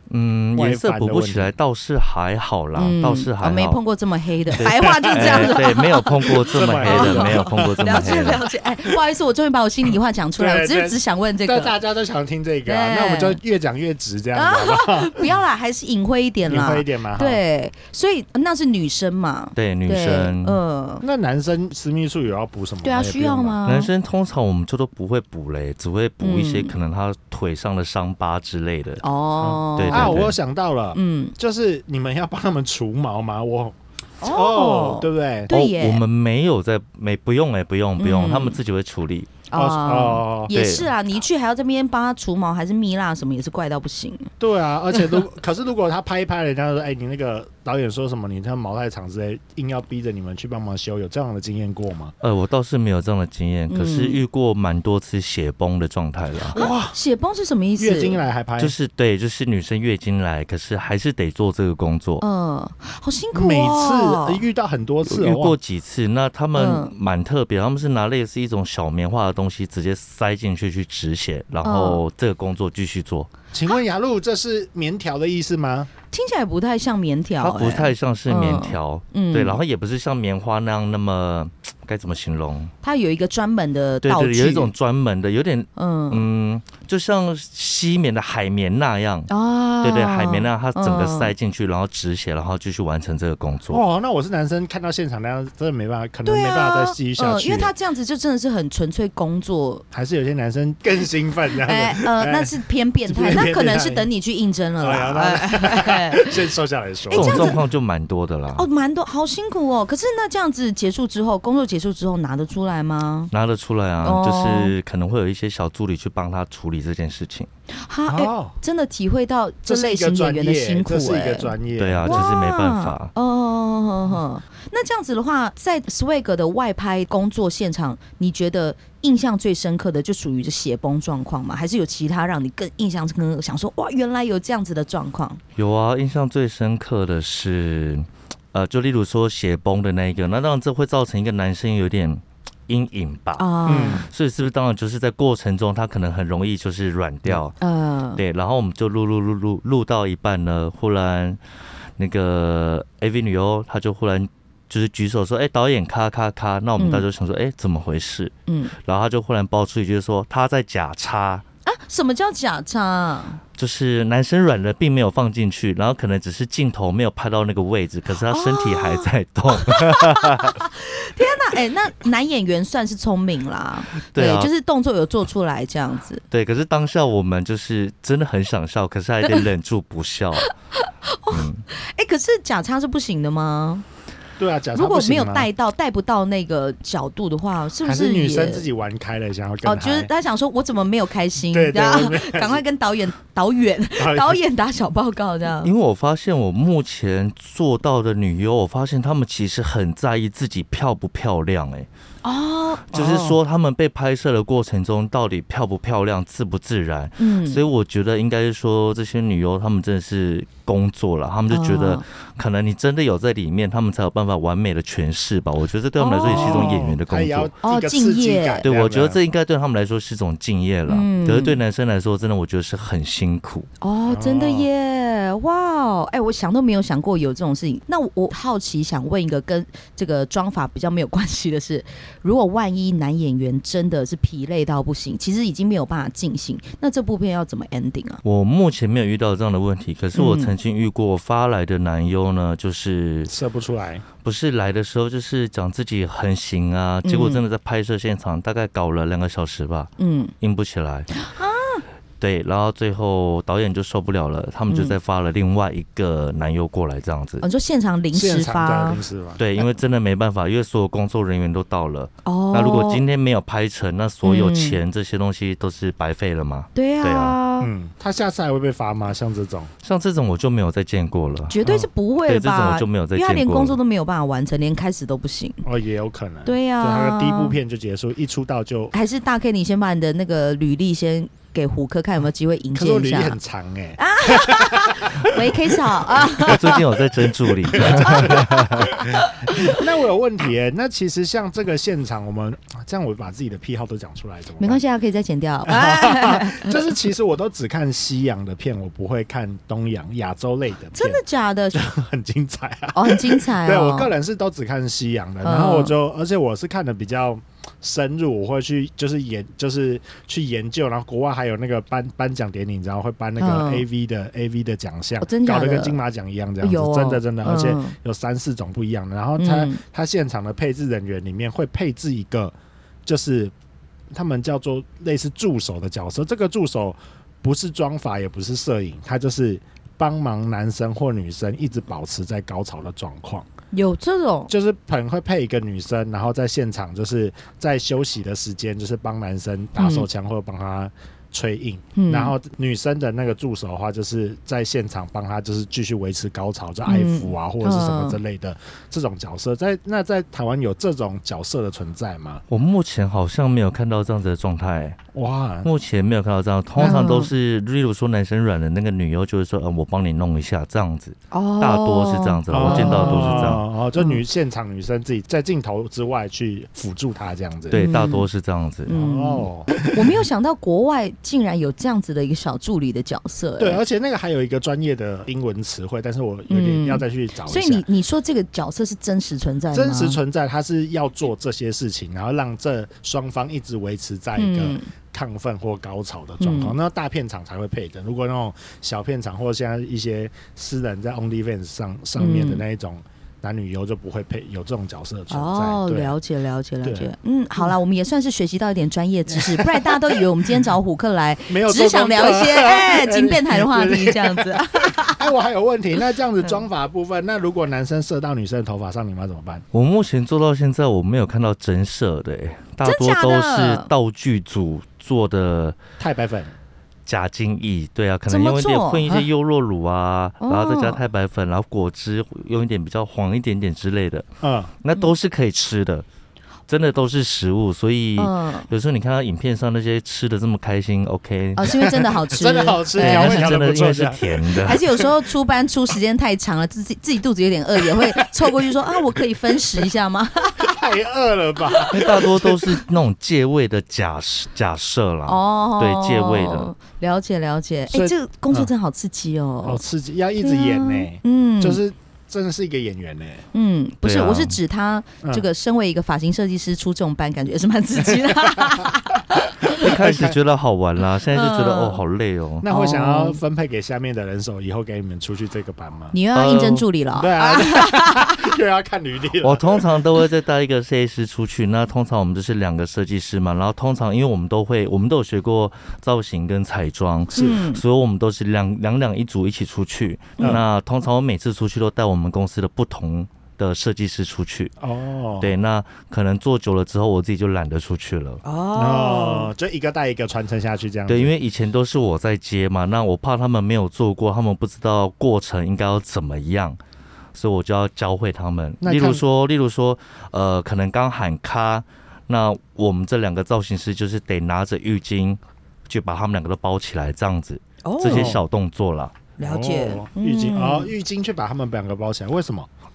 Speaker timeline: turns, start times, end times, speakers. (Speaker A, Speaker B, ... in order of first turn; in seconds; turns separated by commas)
Speaker A: 0.1-3.8, Speaker B: 0.6-1.5, Speaker C: 2.8-11.8, Speaker B: 4.6-5.7, Speaker A: 4.6-8.4, Speaker B: 6.4-9.0, Speaker B: 10.4-15.3, Speaker C: 12.7-13.4, Speaker C: 14.3-21.0, Speaker B: 16.5-17.4, Speaker A: 19.6-20.6, Speaker B: 21.0-23.6, Speaker C: 22.8-23.9, Speaker A: 23.6-29.0, Speaker C: 26.2-26.7, Speaker C: 29.0-30.2, Speaker B: 29.4-35.5, Speaker A: 29.8-30.4, Speaker C: 30.9-31.4, Speaker C: 34.2-36.0, Speaker A: 35.5-39.4, Speaker C: 38.0-38.6, Speaker C: 39.5-44.3, Speaker B: 39.5-40.5, Speaker A: 40.5-40.9, Speaker B: 44.4-52.1, Speaker A: 52.2-56.6, Speaker C: 53.7-54.2, Speaker B: 56.5-57.0, Speaker C: 56.5-58.2, Speaker B: 57.8-58.8, Speaker A: 58.6-62.2, Speaker C: 62.2-64.4, Speaker B: 63.3-65.6, Speaker A: 65.0-73.3, Speaker C: 66.5-66.9, Speaker C: 71.6-72.0, Speaker B: 73.5-75.9, Speaker C: 76.1-79.6, Speaker A: 77.4-82.7, Speaker C: 82.8-84.7, Speaker A: 84.0-89.3, Speaker C: 85.8-86.2, Speaker C: 89.3-91.3, Speaker A: 89.8-93.8, Speaker B: 93.7-97.7, Speaker C: 96.2-99.8, Speaker B: 99.9-102.5, Speaker C: 101.7-106.4, Speaker B: 103.1-104.1, Speaker B: 104.8-107.6, Speaker C: 107.1-107.6, Speaker A: 107.1-108.7, Speaker C: 108.5-113.3, Speaker A: 113.3-117.5, Speaker C: 114.0-114.7, Speaker C: 117.8-121.5, Speaker B: 118.1-118.6, Speaker B: 119.7-122.3, Speaker A: 121.8-123.1, Speaker C: 122.1-135.4, Speaker A: 135.6-147.6, Speaker C: 143.4-144.1, Speaker B: 143.7-144.1, Speaker C: 147.6-148.2, Speaker A: 148.2-151.4, Speaker A: 152.0-161.4, Speaker C: 156.8-157.1, Speaker C: 158.5-158.7, Speaker C: 161.7-163.4, Speaker A: 163.6-170.6, Speaker C: 168.2-176.2, Speaker A: 174.1-174.5, Speaker A: 176.3-180.5, Speaker C: 180.4-183.8, Speaker A: 181.3-181.6, Speaker B: 184.4-185.5, Speaker C: 184.8-188.7, Speaker B: 187.8-190.1, Speaker C: 189.6-195.7, Speaker B: 191.5-192.6, Speaker B: 194.0-194.4, Speaker A: 195.6-201.9, Speaker C: 202.2-202.9, Speaker A: 202.9-217.5, Speaker B: 202.9-203.4, Speaker C: 207.2-207.6, Speaker C: 211.5-212.0, Speaker C: 216.0-216.8, Speaker B: 216.2-219.2, Speaker C: 217.6-218.7, Speaker A: 218.6-223.7, Speaker C: 220.9-221.6, Speaker C: 223.8-238.2, Speaker B: 224.1-224.7, Speaker A: 238.2-243.3, Speaker C: 240.2-240.6, Speaker B: 243.3-244.1, Speaker A: 244.2-251.1, Speaker C: 247.0-247.4, Speaker C: 250.0-250.3, Speaker C: 251.1-251.8, Speaker A: 252.2-257.4, Speaker C: 254.7-255.0, Speaker C: 257.4-259.0, Speaker B: 258.1-259.4, Speaker A: 259.4-267.4, Speaker C: 262.2-263.0, Speaker C: 264.2-264.8, Speaker C: 266.8-267.7, Speaker B: 267.6-269.7, Speaker A: 269.8-271.6, Speaker C: 271.5-275.6, Speaker A: 272.2-273.8, Speaker B: 275.6-278.9, Speaker C: 276.4-277.6, Speaker C: 278.9-283.4, Speaker B: 282.7-286.2, Speaker C: 284.0-286.8, Speaker A: 286.4-288.9, Speaker C: 287.7-289.8, Speaker B: 287.7-294.8, Speaker C: 294.6-296.9, Speaker B: 295.6-301.2, Speaker C: 300.9-301.9, Speaker B: 301.7-322.5, Speaker C: 302.9-304.1, Speaker C: 305.4-305.9, Speaker C: 313.4-313.9, Speaker C: 315.2-316.0, Speaker C: 316.6-317.9, Speaker C: 319.4-319.8, Speaker B: 323.1-323.5, Speaker B: 324.1-333.5, Speaker C: 333.7-334.5, Speaker B: 334.5-352.4, Speaker C: 339.8-340.1, Speaker C: 341.9-342.4, Speaker C: 346.9-348.2, Speaker A: 352.5-355.0, Speaker B: 355.1-355.7, Speaker A: 355.6-363.6, Speaker B: 356.8-357.1, Speaker C: 356.8-357.3, Speaker C: 361.3-364.2, Speaker B: 362.5-367.8, Speaker A: 367.7-368.9, Speaker C: 367.7-368.3, Speaker C: 368.9-373.8, Speaker B: 368.9-370.2, Speaker B: 373.6-377.9, Speaker C: 376.5-380.2, Speaker B: 379.7-396.1, Speaker C: 384.4-384.9, Speaker C: 386.4-386.8, Speaker C: 392.2-392.6, Speaker C: 395.3-405.3, Speaker B: 396.8-397.8, Speaker B: 399.3-400.2, Speaker B: 401.5-409.6, Speaker A: 409.7-415.8, Speaker C: 412.8-413.9, Speaker B: 416.0-416.5, Speaker A: 417.1-424.3, Speaker C: 418.3-419.1, Speaker C: 420.4-421.0, Speaker B: 424.4-424.7, Speaker A: 424.8-426.1, Speaker A: 426.7-431.8, Speaker C: 428.2-428.7, Speaker C: 431.6-433.6, Speaker B: 431.8-435.0, Speaker A: 433.0-434.8, Speaker C: 434.6-440.7, Speaker B: 437.9-438.7, Speaker B: 440.6-442.6, Speaker A: 441.9-446.7, Speaker C: 445.3-449.8, Speaker B: 447.9-448.7, Speaker B: 449.6-453.4, Speaker C: 450.4-451.8, Speaker C: 453.5-459.9, Speaker A: 454.0-454.6, Speaker B: 458.1-458.9, Speaker A: 459.8-462.7, Speaker B: 459.8-460.4, Speaker C: 461.3-462.0, Speaker B: 462.6-466.1, Speaker C: 462.7-463.4, Speaker C: 466.1-468.5, Speaker A: 466.4-466.9, Speaker B: 467.1-469.8, Speaker A: 469.4-484.7, Speaker C: 477.3-477.8, Speaker B: 477.3-477.6, Speaker B: 484.8-485.6, Speaker A: 485.4-488.4, Speaker C: 488.4-489.5, Speaker B: 488.8-491.3, Speaker A: 491.1-496.8, Speaker A: 497.4-509.2, Speaker B: 498.8-499.2, Speaker C: 507.8-508.4, Speaker B: 508.1-508.4, Speaker C: 509.4-510.9, Speaker B: 509.4-512.7